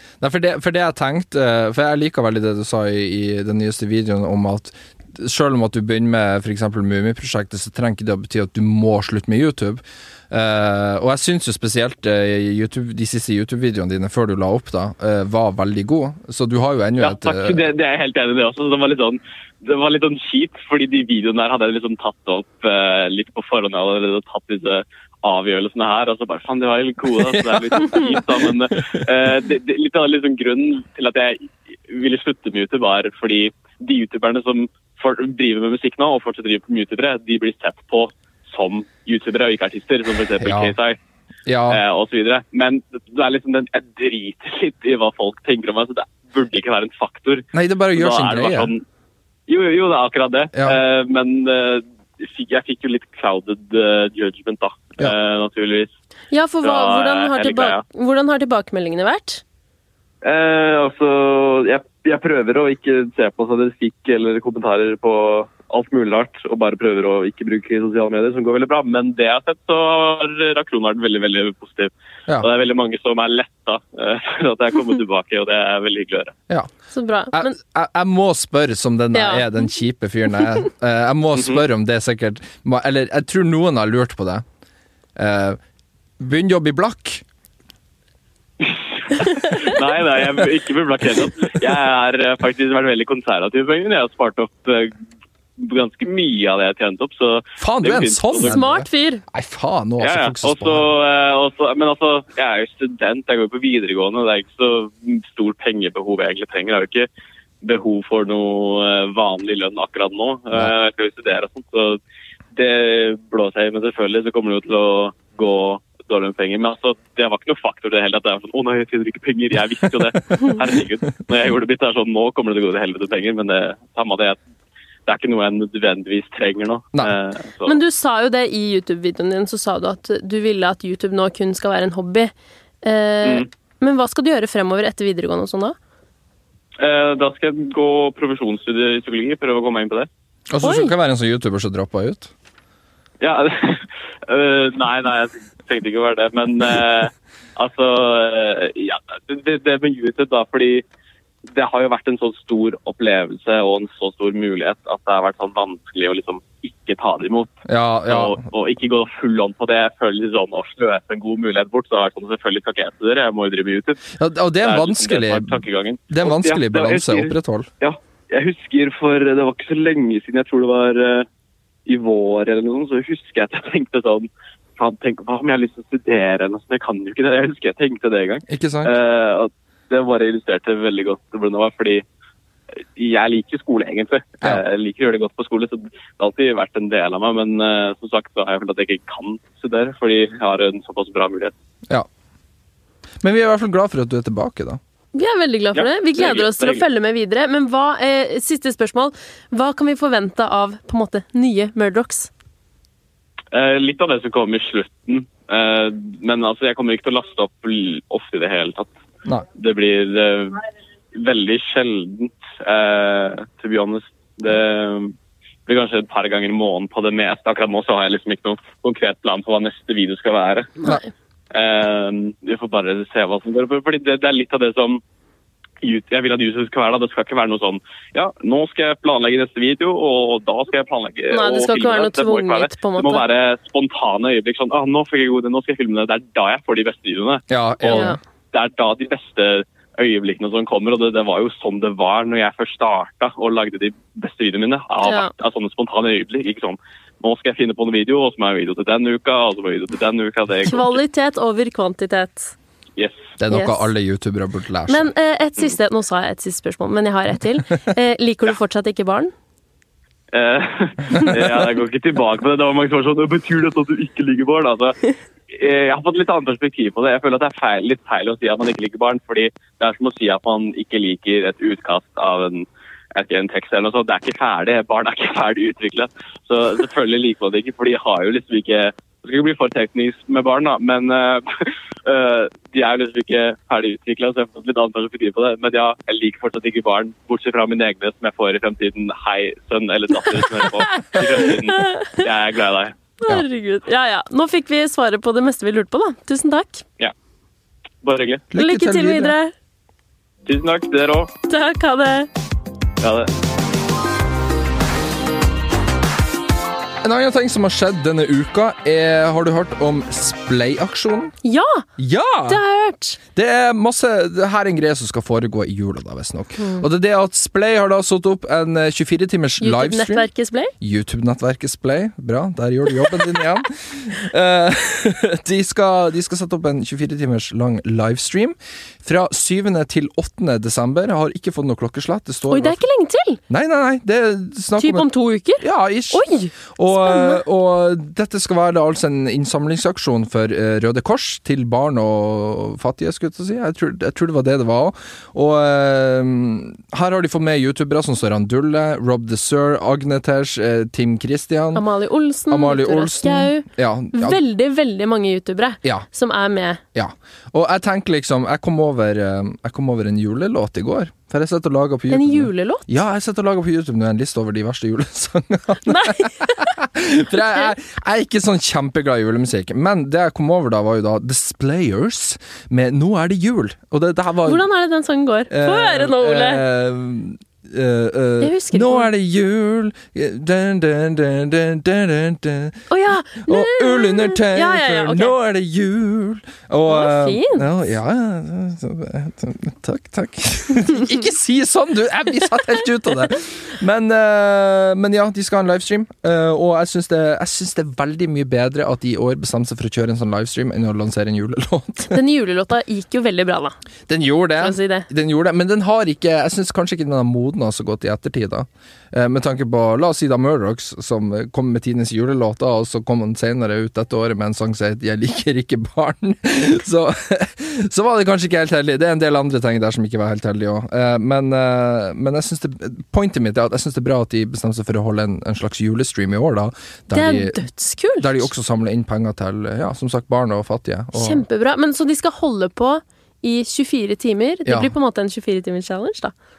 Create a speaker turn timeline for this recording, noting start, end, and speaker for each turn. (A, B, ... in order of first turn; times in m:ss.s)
0:00.2-0:17.6 A
0:17.0-0:41.0 B
0:40.4-0:40.7 A
0:41.4-0:41.8 A
0:41.7-0:48.8 B
0:47.5-0:48.7 A
0:49.5-0:55.9 B
0:50.5-0:50.8 A
0:56.3-0:59.4 C
0:56.6-0:57.8 B
1:00.2-1:16.3 B
1:16.9-1:17.6 C
1:17.3-1:24.4 A
1:19.1-1:19.4 C
1:21.4-1:21.6 B
1:25.2-1:25.6 A
1:26.2-1:27.2 A
1:28.6-1:34.9 B
1:35.6-1:38.6 B
1:37.6-1:40.9 A
1:38.4-1:39.2 C
1:40.0-1:47.1 B
1:47.6-1:52.0 B
1:52.5-2:04.4 B
2:05.0-2:07.8 B
2:07.6-2:12.3 C
2:12.8-2:15.8 C
2:16.8-2:20.1 B
2:20.5-2:22.3 A
2:20.6-2:20.9 C
2:23.2-2:30.8 B
2:31.5-2:37.5 B
2:37.6-2:38.4 A
2:38.1-2:44.1 B
2:44.2-2:45.6 A
2:44.6-2:51.3 B
2:46.1-2:47.7 A
2:51.8-3:02.0 B
2:58.5-2:58.9 A
3:03.0-3:11.5 B
3:13.2-3:14.8 A
3:15.1-3:22.3 C
3:15.7-3:16.8 B
3:23.5-3:28.9 B
3:29.6-3:35.1 B
3:35.7-3:40.8 B
3:40.8-3:41.1 C
3:41.5-3:45.0 B
3:45.8-4:11.0 B
3:51.3-3:53.2 C
3:57.5-3:58.2 A
3:57.9-3:58.2 C
4:05.0-4:05.3 C
4:10.6-4:12.5 C
4:13.0-4:13.3 B
4:13.4-4:15.1 A
4:13.5-4:13.9 C
4:14.9-4:19.3 C
4:20.3-4:52.9 B
4:51.7-4:52.2 C
4:53.2-4:56.8 C
4:58.0-4:58.4 B
4:58.5-4:59.3 A
4:58.5-4:59.5 C
5:00.4-5:01.3 B
5:01.5-5:02.3 C
5:03.0-5:03.3 B
5:07.0-5:11.3 A
5:11.4-5:11.8 C
5:12.0-5:12.6 A
5:12.5-5:13.2 C
5:13.3-5:20.3 A
5:16.6-5:16.8 C
5:19.6-5:20.7 C
5:20.8-5:32.8 A
5:32.5-5:33.4 C
5:33.5-5:35.1 A
5:34.8-5:37.4 C
5:35.6-5:51.8 A
5:51.7-5:56.8 C
5:52.5-5:54.4 A
5:56.9-6:14.6 A
6:02.1-6:02.9 C
6:05.8-6:06.7 C
6:07.4-6:07.7 C
6:14.4-6:16.6 C
6:15.5-6:22.8 A
6:18.4-6:19.1 C
6:22.9-6:25.3 C
6:23.4-6:42.2 A
6:26.9-6:27.6 C
6:42.1-6:43.7 C
6:44.1-7:07.6 A
6:44.6-6:45.1 C
7:07.1-7:08.5 C
7:08.2-7:11.4 A
7:11.1-7:16.3 C
7:14.6-7:14.9 A